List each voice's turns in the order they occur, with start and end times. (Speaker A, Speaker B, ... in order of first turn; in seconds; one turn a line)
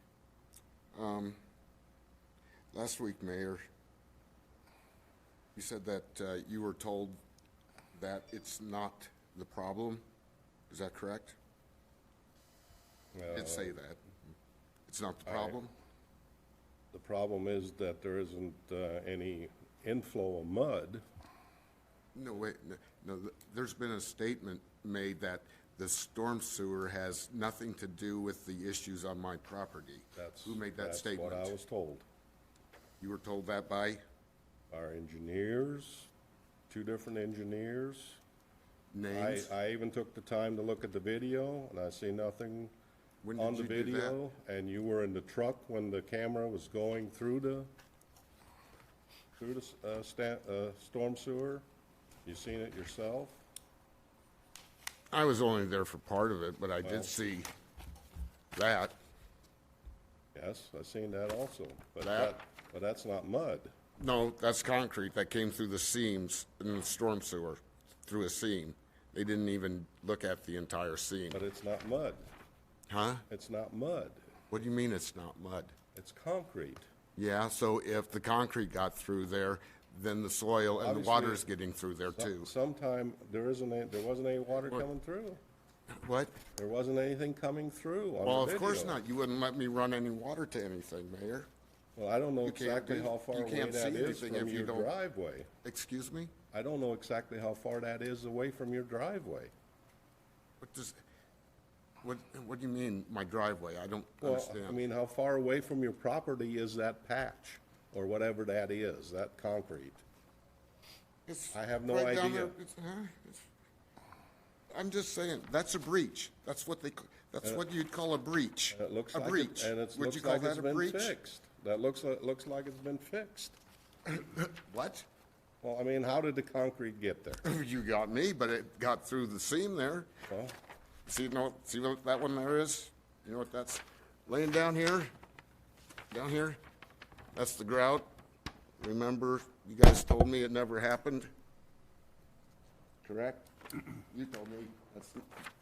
Speaker A: 0.9-1.4
Speaker A: 2.7-3.6
Speaker A: 5.5-7.2
Speaker A: 7.9-10.0
Speaker A: 10.7-11.4
Speaker B: 13.2-13.7
Speaker A: 13.3-14.0
Speaker A: 14.9-15.7
Speaker B: 15.3-15.6
Speaker B: 16.9-21.0
Speaker A: 22.1-31.6
Speaker B: 30.1-32.0
Speaker A: 33.0-34.0
Speaker B: 34.7-36.1
Speaker B: 36.7-38.2
Speaker A: 38.9-39.5
Speaker B: 39.1-42.7
Speaker A: 43.2-44.2
Speaker B: 43.4-47.7
Speaker B: 49.4-51.6
Speaker B: 52.2-53.4
Speaker A: 55.1-57.5
Speaker B: 56.8-57.1
Speaker A: 58.5-59.0
Speaker B: 60.4-63.7
Speaker A: 62.0-62.4
Speaker A: 64.0-71.4
Speaker B: 71.3-72.3
Speaker A: 72.9-73.2
Speaker B: 73.3-74.3
Speaker A: 74.5-75.8
Speaker B: 76.0-76.9
Speaker A: 77.2-82.5
Speaker B: 80.8-81.4
Speaker B: 82.2-85.4
Speaker A: 86.0-86.4
Speaker B: 86.6-89.0
Speaker A: 88.2-91.5
Speaker B: 92.0-95.5
Speaker A: 92.4-94.9
Speaker A: 95.6-96.3
Speaker B: 96.5-99.5
Speaker A: 100.6-101.0
Speaker A: 102.0-104.8
Speaker B: 104.2-110.0
Speaker A: 111.3-113.5
Speaker B: 111.5-112.6
Speaker A: 114.7-121.1
Speaker B: 118.7-123.6
Speaker A: 124.1-125.1
Speaker B: 125.6-127.4
Speaker A: 127.4-130.1
Speaker B: 130.3-130.6
Speaker A: 131.1-135.1
Speaker A: 136.1-136.6
Speaker A: 137.3-138.1
Speaker A: 138.8-141.3
Speaker A: 143.0-143.5
Speaker A: 144.1-145.2